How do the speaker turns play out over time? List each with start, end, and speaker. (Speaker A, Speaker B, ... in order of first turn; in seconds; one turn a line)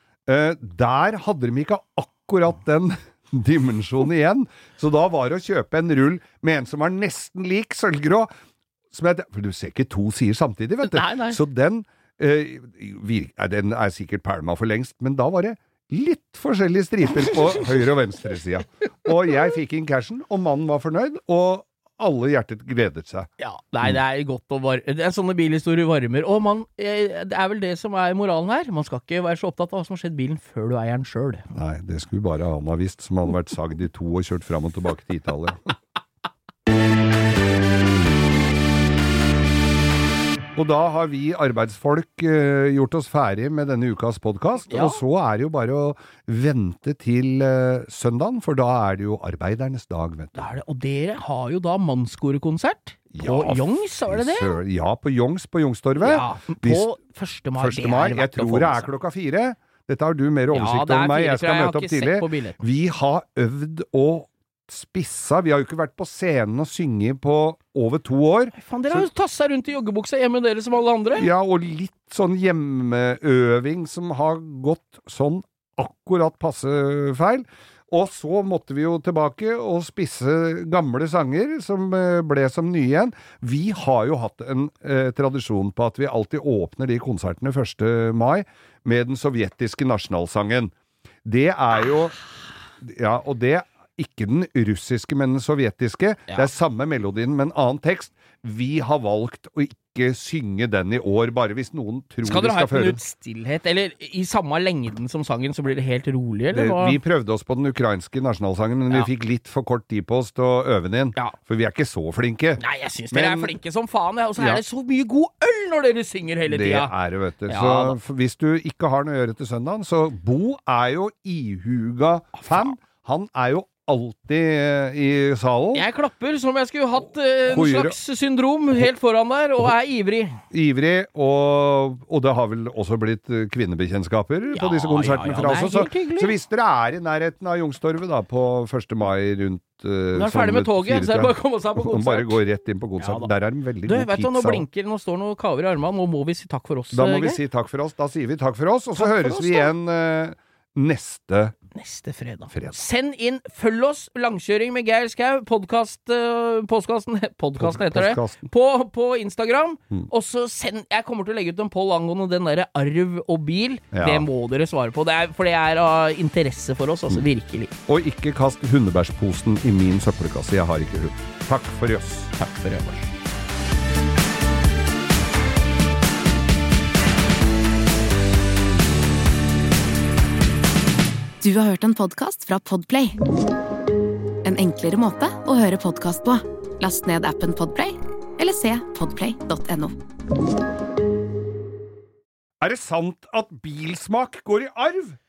Speaker A: 0.3-8.3
Speaker A: 8.9-23.3
Speaker B: 10.9-11.4
Speaker B: 23.4-31.5
Speaker A: 31.5-35.7
Speaker A: 40.5-50.5
Speaker B: 44.7-45.0
Speaker B: 50.4-54.6
Speaker A: 53.1-56.9
Speaker B: 56.0-58.9
Speaker A: 57.6-69.0
Speaker B: 60.5-62.6
Speaker B: 68.5-71.3
Speaker A: 71.2-90.7
Speaker A: 91.2-92.2
Speaker A: 92.8-103.0
Speaker B: 102.2-107.0
Speaker A: 106.5-113.5
Speaker B: 112.6-116.9
Speaker A: 116.5-125.8
Speaker B: 117.5-118.0
Speaker B: 122.4-122.7
Speaker B: 125.7-130.4
Speaker A: 127.4-128.0
Speaker A: 130.5-144.7
Speaker B: 134.5-136.4
Speaker B: 140.1-142.4
Speaker B: 143.0-143.3
Speaker B: 143.8-147.4
Speaker A: 146.9-151.6
Speaker B: 149.0-149.7
Speaker B: 151.7-167.7
Speaker A: 157.6-158.5
Speaker A: 163.9-164.3
Speaker A: 167.9-172.3
Speaker B: 172.4-173.1
Speaker C: 181.4-183.2
Speaker C: 184.4-190.0
Speaker A: 192.6-195.2